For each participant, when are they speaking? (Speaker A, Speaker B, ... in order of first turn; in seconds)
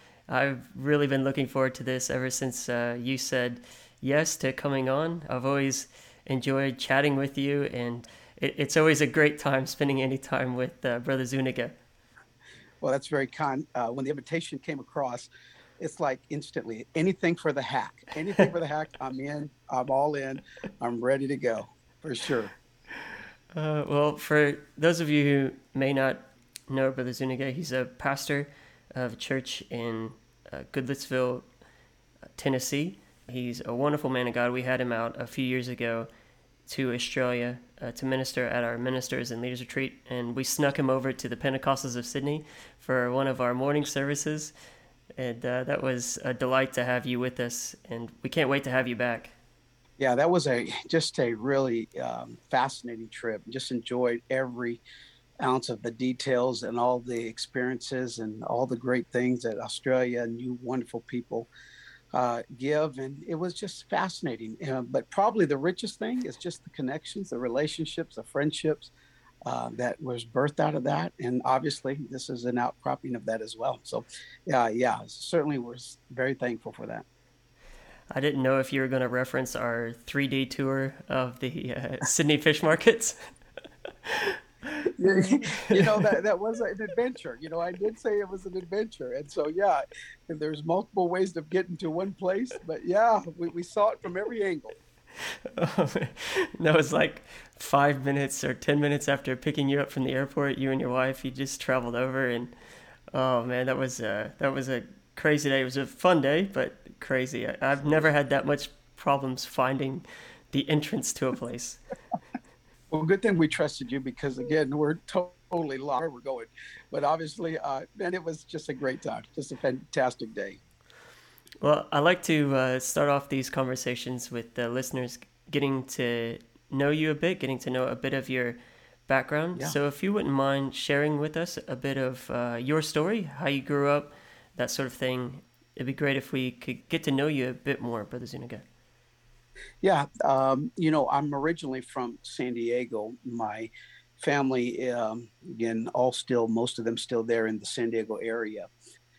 Speaker A: 0.3-11.7, 23.5-31.5, 32.3-36.1, 36.7-44.5, 45.1-49.3, 78.1-83.3, 84.0-85.8, 95.2-102.5, 103.1-111.8, 121.6-138.6
Speaker B: 12.8-22.5, 50.0-54.8, 55.4-61.5, 62.1-68.9, 69.5-77.0, 84.8-94.8, 112.9-120.6, 139.8-148.7